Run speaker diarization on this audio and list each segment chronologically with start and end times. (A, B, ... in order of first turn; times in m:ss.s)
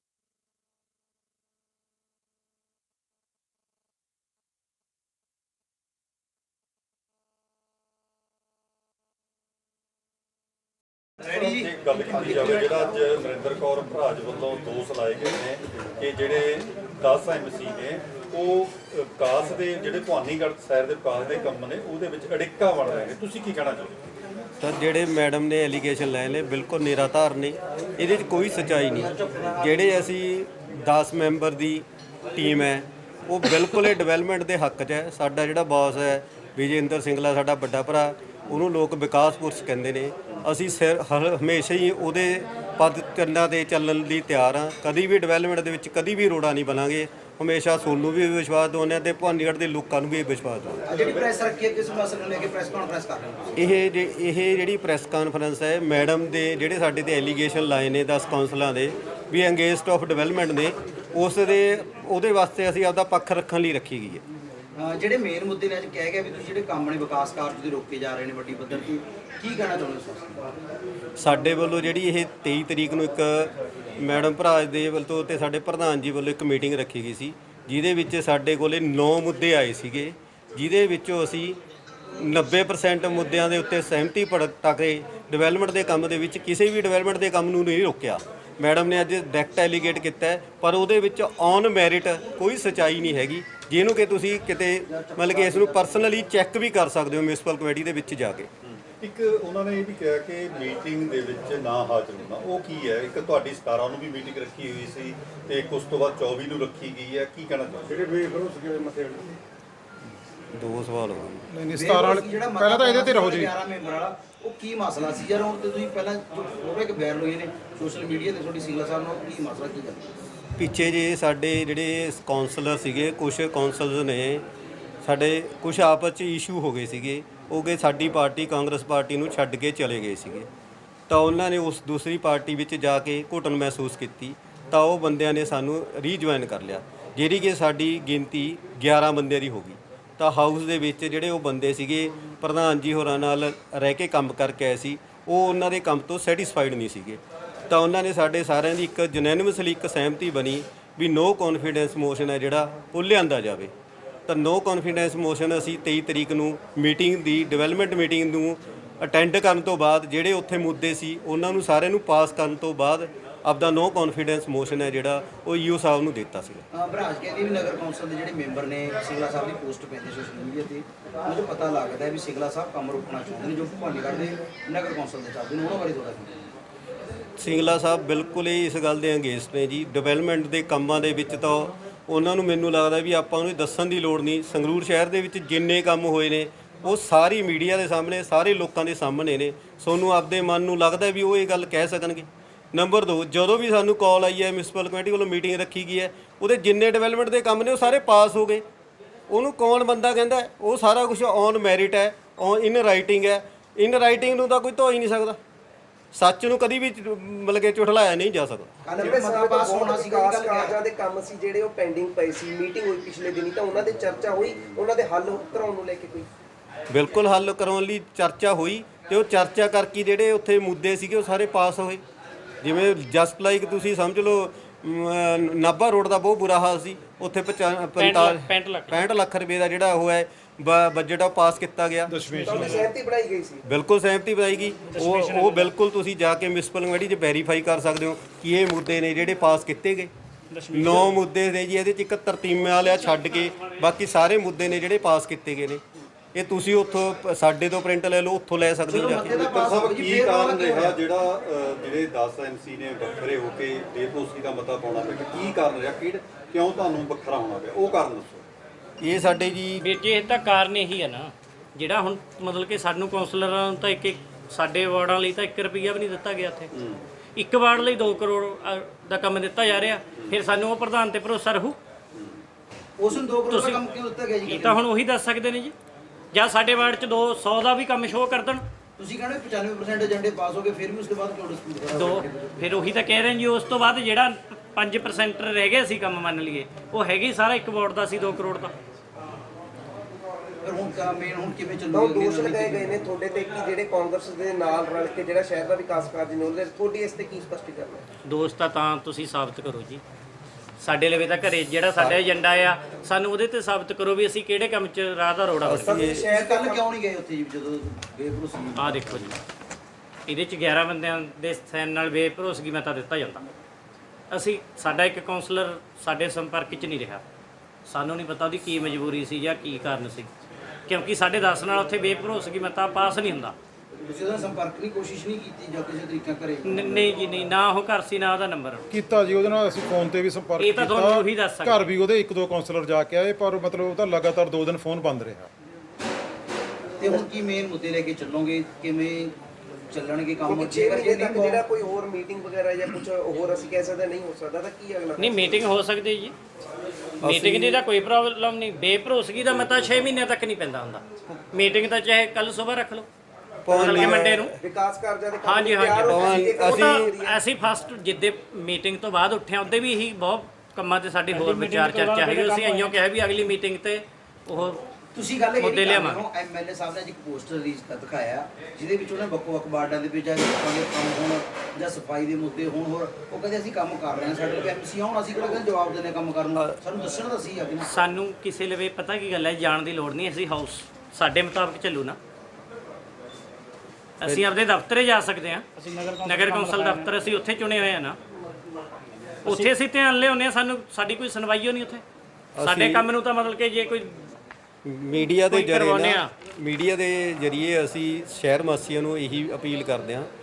0:11.3-0:12.9 A
0:11.3-0:24.0 B
0:24.6-0:50.9 C
0:28.8-0:30.1 A
0:50.9-0:53.7 A
0:53.6-1:04.2 C
1:04.8-1:10.5 A
1:11.2-1:21.6 C
1:22.2-1:38.5 C
1:34.8-1:36.1 A
1:38.6-1:48.0 B
1:48.2-1:49.2 C
1:50.5-1:51.5 C
1:51.5-1:53.5 D
1:51.7-2:00.1 A
2:00.6-2:04.4 C
2:05.0-2:10.5 C
2:11.1-2:33.7 C
2:34.3-2:46.7 C
2:46.7-2:56.5 A
2:57.4-3:18.6 C
3:19.3-3:25.4 C
3:26.1-3:28.7 C
3:28.8-3:30.8 A
3:29.0-3:36.3 E
3:36.9-3:42.0 C
3:42.6-3:52.8 C
3:48.0-3:49.0 F
3:52.1-3:52.9 D
3:52.3-3:52.7 B
3:52.4-3:53.6 E
3:53.6-4:00.1 C
3:54.9-3:55.7 D
4:00.5-4:01.1 D
4:00.7-4:05.8 C
4:06.3-4:09.4 C
4:08.9-4:11.0 A
4:09.3-4:18.4 B
4:19.0-4:19.8 C
4:19.8-4:26.7 F
4:26.7-4:27.1 B
4:27.4-4:31.8 F
4:33.0-4:34.8 A
4:33.5-4:33.8 F
4:34.4-4:35.8 F
4:36.3-4:38.6 F
4:39.0-4:42.7 A
4:41.9-4:48.8 F
4:50.6-4:53.1 A
4:51.9-4:58.0 E
4:58.3-5:00.0 F
5:00.8-5:06.0 F
5:05.6-5:06.2 C
5:05.8-5:06.9 E
5:06.1-5:09.4 A
5:08.8-5:09.3 F
5:10.3-5:13.5 F
5:14.3-5:17.2 F
5:17.9-5:20.3 F
5:20.9-5:23.6 F
5:24.0-5:27.0 A
5:26.6-5:28.9 F
5:28.9-5:35.5 D
5:30.6-5:31.9 F
5:37.0-5:39.4 A
5:39.9-5:41.7 A
5:40.4-5:45.6 E
5:45.2-5:46.4 F
5:47.2-5:47.8 C
5:47.2-5:53.1 F
5:53.6-5:54.4 C
5:53.7-5:54.5 F
5:53.8-5:57.4 E
5:55.4-6:04.9 F
5:56.1-5:57.2 C
6:01.3-6:03.0 D
6:05.1-6:17.9 A
6:05.6-6:06.2 F
6:17.8-6:22.2 F
6:24.2-6:25.7 F
6:25.8-6:27.1 D
6:26.2-6:28.2 F
6:29.4-6:32.0 F
6:32.6-6:33.1 C
6:32.6-6:34.2 F
6:34.8-6:40.3 C
6:35.4-6:36.3 F